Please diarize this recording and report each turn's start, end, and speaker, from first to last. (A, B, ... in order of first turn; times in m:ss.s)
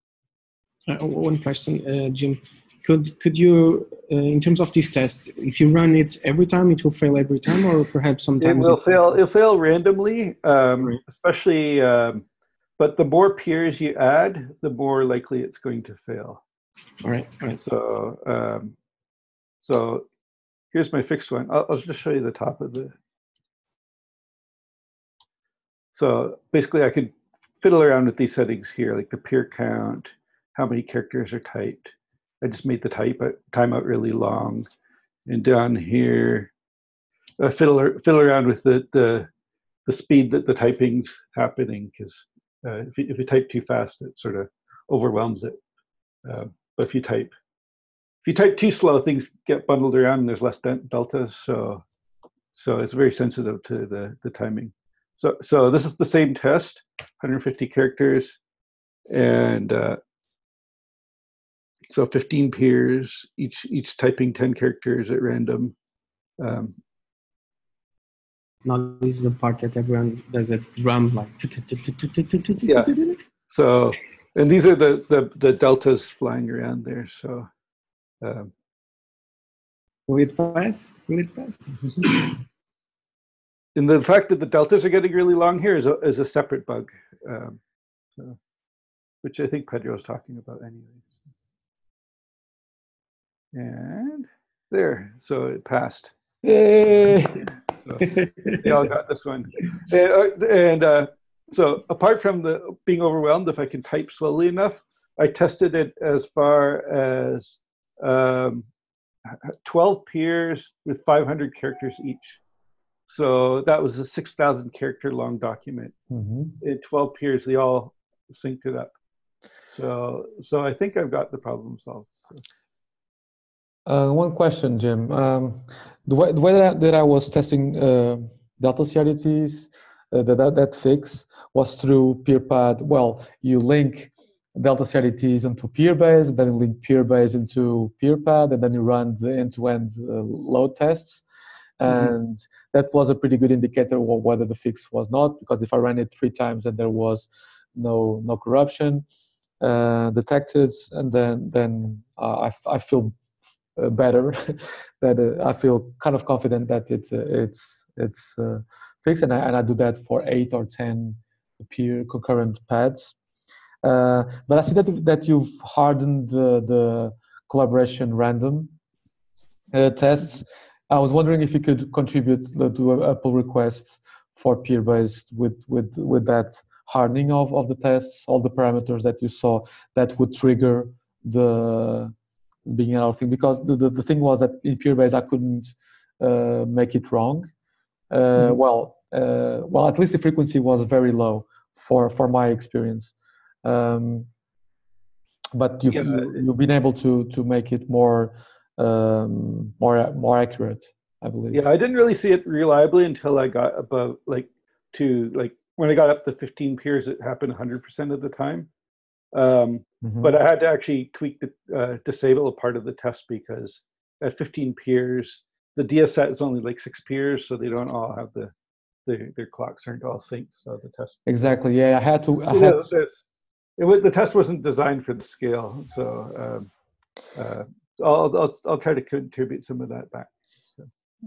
0:00.9-0:09.2 A
0:08.4-0:12.2 B
0:12.8-0:16.4 B
0:17.0-0:17.6 A
0:17.5-0:18.8 B
0:19.6-0:20.0 B
0:20.7-0:22.9 B
0:26.0-0:31.9 B
0:32.4-0:34.7 B
0:35.3-0:36.5 B
0:37.4-0:39.3 B
0:39.9-0:45.6 B
0:46.2-0:47.3 B
0:48.2-0:51.8 B
0:52.5-0:58.4 B
0:59.1-1:00.0 B
1:01.9-1:05.8 B
1:06.4-1:06.8 B
1:08.6-1:13.2 A
1:12.6-1:12.9 B
1:13.5-1:17.5 B
1:18.2-1:18.5 B
1:20.1-1:22.3 A
1:23.8-1:27.6 B
1:29.2-1:31.1 B
1:33.5-1:36.1 B
1:36.4-1:37.5 C
1:37.8-1:48.6 B
1:38.1-1:38.6 A
1:49.3-1:52.4 B
1:53.1-1:56.0 B
1:56.1-1:56.6 C
1:56.6-1:58.9 B
1:59.7-2:02.4 B
2:03.9-2:21.2 C
2:21.8-2:29.0 C
2:29.6-2:33.2 C
2:33.8-2:43.2 C
2:43.8-2:48.7 C
2:49.7-3:02.1 C
3:02.7-3:07.5 C
3:08.1-3:13.1 C
3:13.6-3:14.3 C
3:15.5-3:21.6 C
3:15.9-3:16.4 B
3:21.5-3:28.7 B
3:29.3-3:38.5 B
3:30.0-3:30.4 C
3:39.1-3:41.2 B
3:41.2-3:42.9 C
3:42.5-3:43.2 B
3:43.8-3:46.7 B
3:47.4-3:50.9 B